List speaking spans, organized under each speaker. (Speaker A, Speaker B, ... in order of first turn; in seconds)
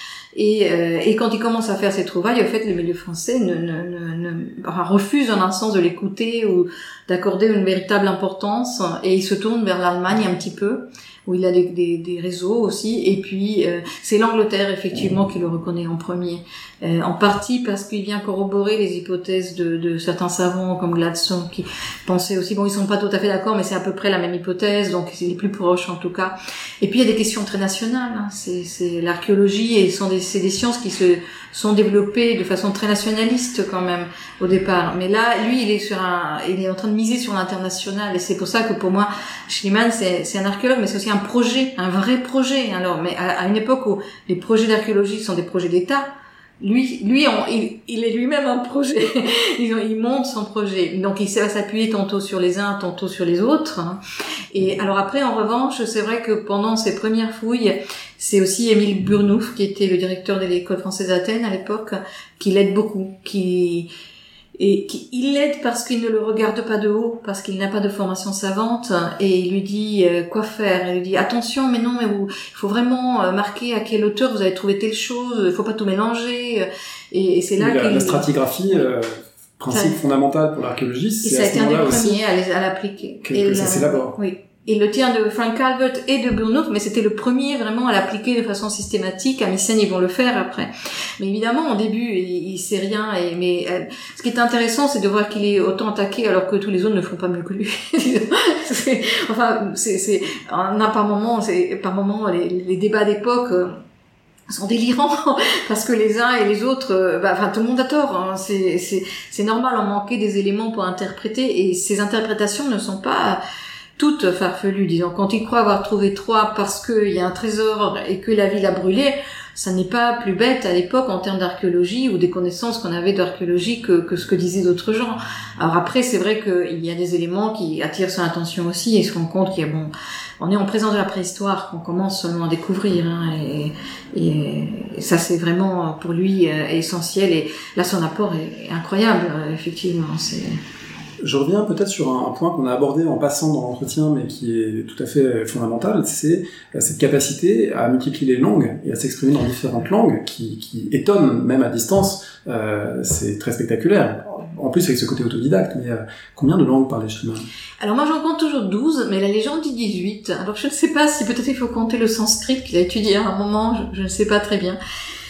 Speaker A: 0.3-46.1, 46.6-54.0, 54.5-63.9, 64.6-78.9, 79.7-80.0, 81.2-103.7, 104.5-113.4, 114.0-140.6, 157.8-164.8
Speaker B: 77.6-82.2, 83.2-84.2, 141.2-157.4